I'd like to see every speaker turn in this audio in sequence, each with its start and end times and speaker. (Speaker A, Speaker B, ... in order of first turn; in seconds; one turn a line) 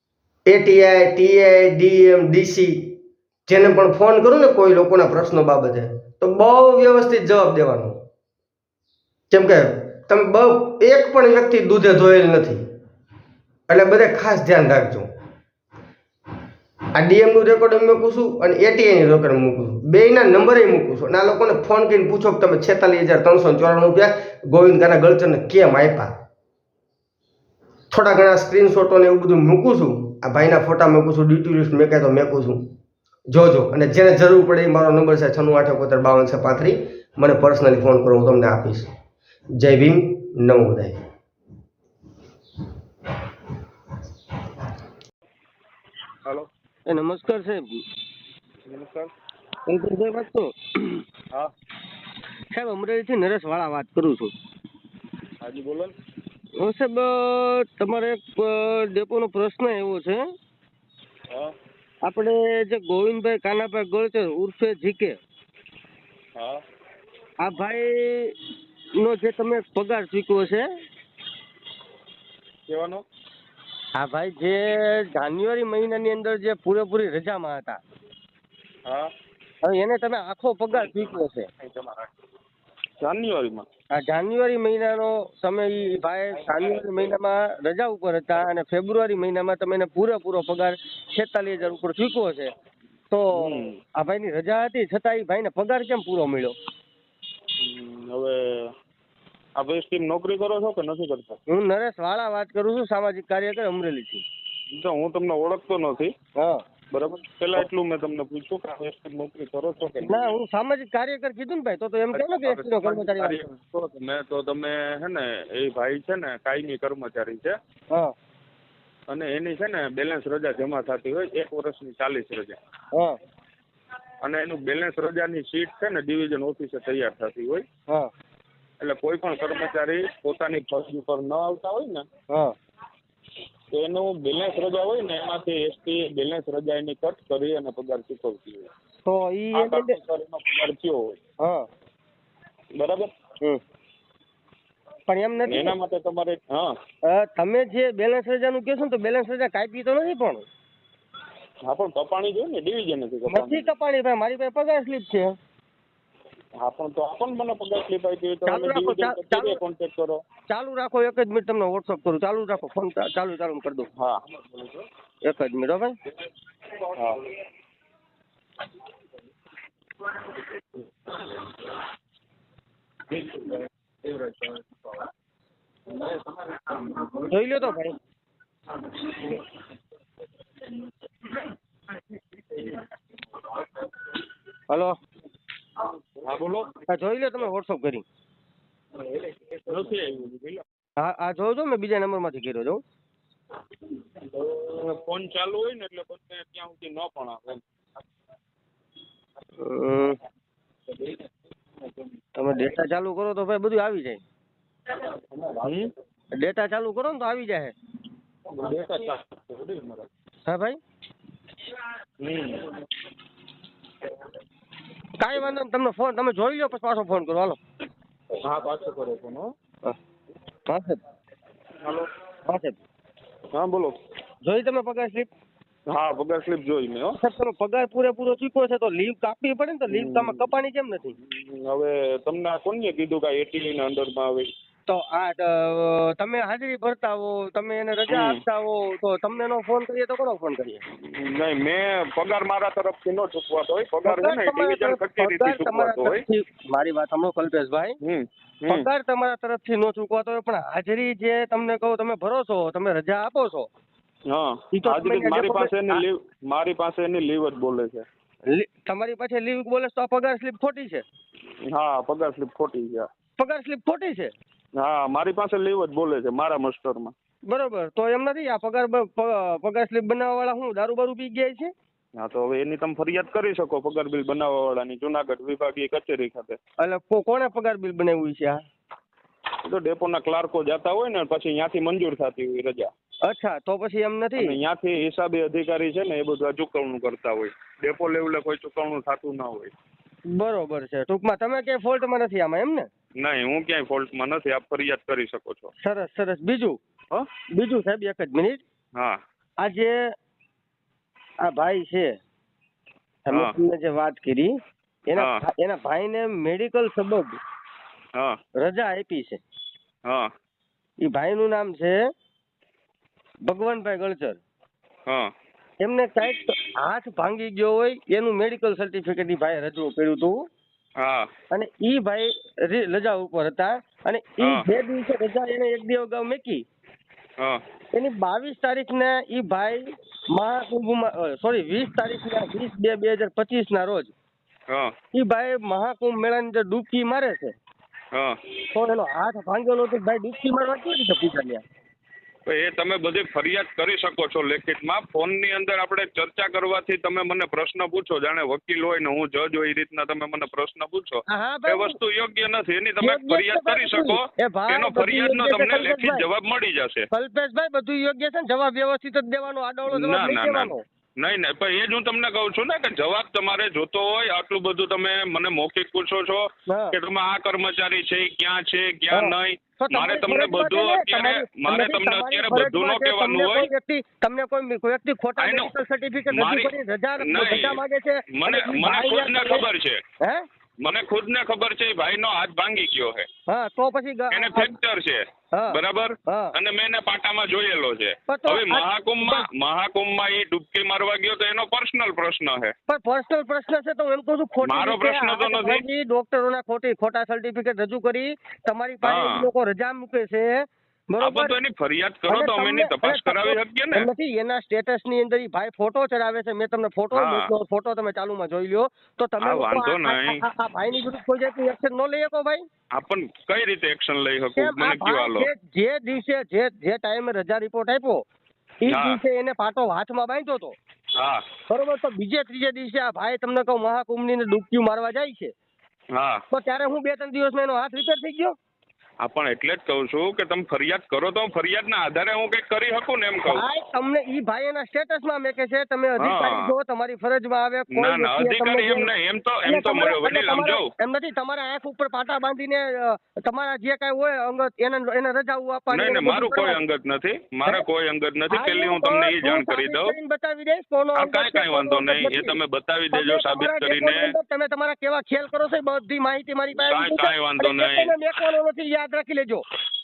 Speaker A: 0.5-8.0
Speaker A: 9.3-12.6
Speaker A: 13.7-15.1
Speaker A: 16.9-26.2
Speaker A: 27.9-32.7
Speaker A: 33.3-38.9
Speaker A: 39.6-41.0
Speaker B: 46.9-47.8
Speaker C: 48.7-49.1
Speaker B: 49.7-51.0
Speaker B: 52.5-54.3
Speaker C: 55.4-55.9
Speaker B: 56.6-60.2
Speaker B: 62.0-65.2
Speaker C: 66.4-66.6
Speaker B: 67.4-68.4
Speaker B: 69.0-70.7
Speaker C: 72.7-73.0
Speaker B: 74.0-77.8
Speaker C: 78.9-79.1
Speaker B: 79.6-81.5
Speaker C: 80.7-81.1
Speaker C: 81.6-82.1
Speaker C: 83.0-83.7
Speaker B: 83.9-92.5
Speaker C: 86.5-87.1
Speaker B: 93.1-96.5
Speaker C: 93.3-93.8
Speaker C: 97.6-98.7
Speaker C: 99.6-101.4
Speaker B: 101.5-104.2
Speaker C: 104.7-106.1
Speaker B: 106.4-106.6
Speaker C: 106.9-110.4
Speaker B: 110.0-113.4
Speaker C: 112.1-117.6
Speaker C: 119.1-122.6
Speaker B: 122.9-123.2
Speaker C: 124.2-127.7
Speaker C: 128.8-132.1
Speaker B: 132.3-132.6
Speaker C: 133.7-138.7
Speaker B: 139.1-140.0
Speaker C: 139.5-141.2
Speaker B: 141.4-141.7
Speaker C: 142.8-143.1
Speaker B: 145.1-145.8
Speaker C: 145.5-146.8
Speaker B: 147.0-150.4
Speaker C: 151.7-153.7
Speaker B: 153.3-155.4
Speaker C: 156.6-160.2
Speaker B: 158.5-159.6
Speaker B: 160.5-163.9
Speaker C: 164.0-164.8
Speaker B: 165.2-166.0
Speaker C: 166.9-167.3
Speaker C: 173.1-174.6
Speaker C: 175.9-177.2
Speaker B: 177.3-178.0
Speaker B: 184.7-185.0
Speaker C: 186.2-186.8
Speaker B: 186.9-188.1
Speaker C: 189.0-190.6
Speaker B: 191.0-192.8
Speaker C: 194.2-197.6
Speaker B: 199.6-200.2
Speaker B: 202.4-204.2
Speaker C: 205.0-205.9
Speaker B: 206.4-207.8
Speaker C: 208.5-210.1
Speaker B: 210.5-210.8
Speaker C: 212.2-212.8
Speaker B: 215.2-217.6
Speaker C: 218.4-219.5
Speaker B: 220.7-221.0
Speaker C: 221.8-222.1
Speaker B: 222.5-222.8
Speaker C: 223.5-224.0
Speaker B: 224.4-225.3
Speaker C: 225.9-227.2
Speaker B: 227.2-231.2
Speaker C: 229.9-230.5
Speaker C: 231.2-234.5
Speaker B: 234.9-240.8
Speaker C: 238.1-238.4
Speaker C: 241.0-246.2
Speaker B: 244.1-248.0
Speaker C: 248.0-248.9
Speaker B: 248.7-253.7
Speaker C: 254.3-258.1
Speaker B: 254.7-256.0
Speaker B: 258.5-261.1
Speaker C: 261.7-263.1
Speaker B: 263.4-264.3
Speaker C: 264.8-267.1
Speaker B: 267.5-271.7
Speaker C: 272.2-276.6
Speaker B: 276.8-278.6
Speaker C: 279.6-282.9
Speaker B: 283.2-284.6
Speaker C: 284.4-289.7
Speaker B: 290.3-292.9
Speaker C: 293.2-295.7
Speaker B: 295.8-296.8
Speaker B: 297.5-298.6
Speaker B: 299.6-300.1
Speaker B: 301.4-302.2
Speaker B: 303.3-307.4
Speaker C: 303.3-303.6
Speaker C: 305.1-305.4
Speaker B: 308.6-309.4
Speaker C: 310.1-310.3
Speaker B: 311.0-312.1
Speaker B: 313.4-314.4
Speaker C: 315.1-315.3
Speaker B: 315.8-320.5
Speaker C: 321.0-321.3
Speaker B: 321.5-326.6
Speaker C: 324.4-324.7
Speaker B: 327.9-334.1
Speaker B: 335.1-337.6
Speaker C: 338.1-338.4
Speaker B: 338.7-341.6
Speaker C: 342.5-357.1
Speaker B: 351.3-352.0
Speaker B: 353.0-356.2
Speaker B: 357.1-360.8
Speaker C: 359.9-373.7
Speaker B: 366.7-366.9
Speaker B: 369.1-379.6
Speaker C: 375.4-375.7
Speaker C: 376.3-377.8
Speaker C: 378.4-380.0
Speaker B: 380.2-380.5
Speaker C: 380.8-383.3
Speaker B: 383.5-384.7
Speaker C: 384.3-392.7
Speaker B: 385.5-386.5
Speaker B: 388.3-389.5
Speaker B: 392.9-401.6
Speaker C: 394.6-395.8
Speaker C: 399.0-399.5
Speaker C: 401.2-404.1
Speaker B: 402.3-412.6
Speaker C: 407.1-407.5
Speaker C: 409.4-410.4
Speaker C: 412.9-415.5
Speaker B: 414.6-418.2
Speaker B: 418.8-420.8
Speaker C: 418.9-419.2
Speaker C: 421.2-421.4
Speaker B: 421.7-425.5
Speaker C: 426.1-426.4
Speaker B: 426.5-428.6
Speaker C: 429.2-433.6
Speaker B: 433.5-439.1
Speaker C: 436.2-436.7
Speaker C: 437.9-440.9
Speaker B: 439.6-446.8
Speaker C: 445.9-450.1
Speaker B: 448.5-452.6
Speaker C: 451.1-454.3
Speaker B: 453.1-459.6
Speaker C: 456.8-458.2